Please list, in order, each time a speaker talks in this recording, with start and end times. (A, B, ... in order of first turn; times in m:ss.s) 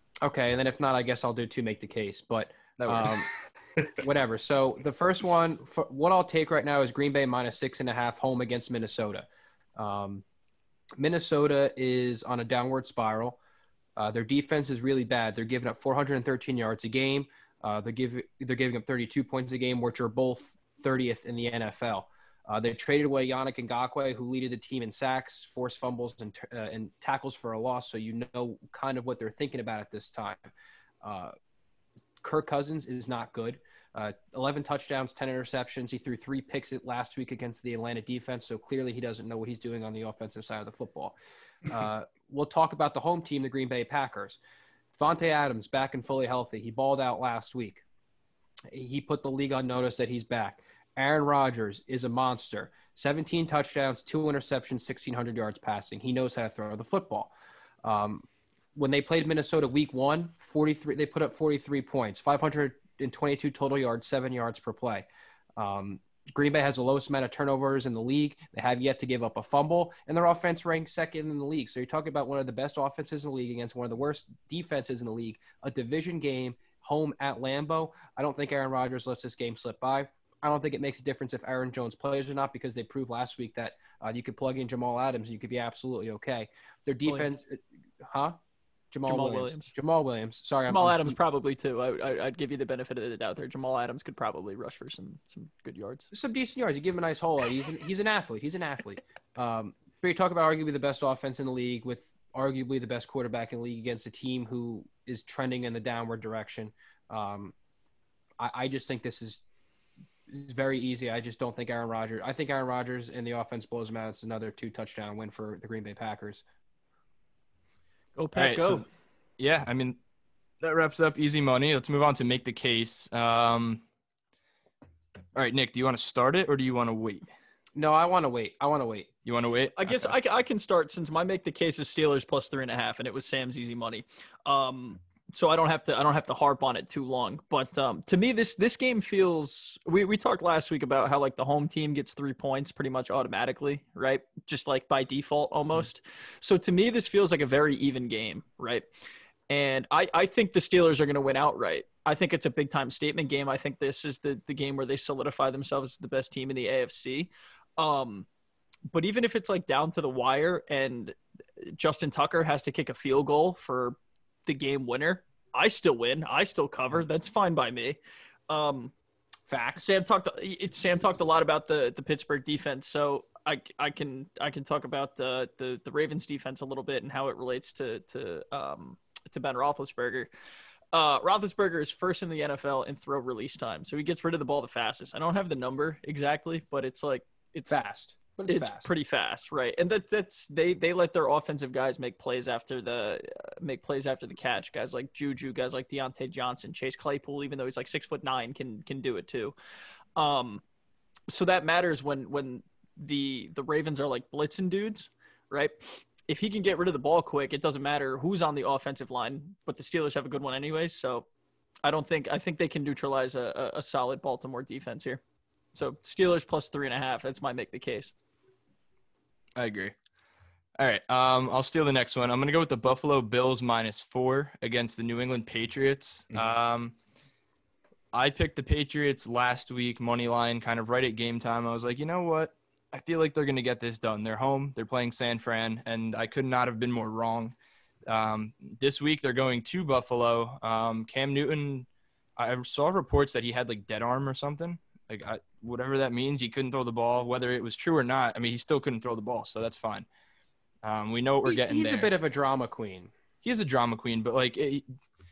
0:00.2-0:03.3 A
0:02.8-0:03.1 B
0:04.0-0:10.2 A
0:11.0-0:13.4 A
0:14.0-0:30.5 A
0:31.0-0:31.3 A
0:32.2-0:41.1 A
0:41.6-0:44.4 A
0:44.9-0:47.8 A
0:48.7-0:57.3 A
0:57.8-1:28.4 A
1:27.0-1:27.3 C
1:28.9-1:31.2 A
1:29.0-1:29.7 C
1:30.7-1:36.1 C
1:36.1-1:47.5 A
1:48.4-1:49.4 A
1:50.3-1:56.4 A
1:58.2-1:58.8 C
1:58.3-1:58.8 B
1:59.4-2:00.0 B
2:00.6-2:03.8 B
2:05.3-2:07.3 B
2:07.8-2:09.1 A
2:09.2-2:10.1 B
2:09.8-2:28.9 C
2:29.5-2:38.3 C
2:38.9-2:48.9 C
2:49.5-2:49.8 A
2:49.8-3:00.3 C
3:00.9-3:07.8 C
3:07.7-3:08.9 A
3:08.4-3:19.5 C
3:20.2-3:20.6 C
3:21.3-3:31.3 C
3:31.8-3:35.2 C
3:35.7-3:38.1 C
3:39.6-3:39.9 B
3:40.8-3:47.0 B
3:48.1-3:57.5 B
3:58.0-4:10.0 B
4:10.8-4:12.1 B
4:11.4-4:13.1 A
4:13.4-4:14.8 B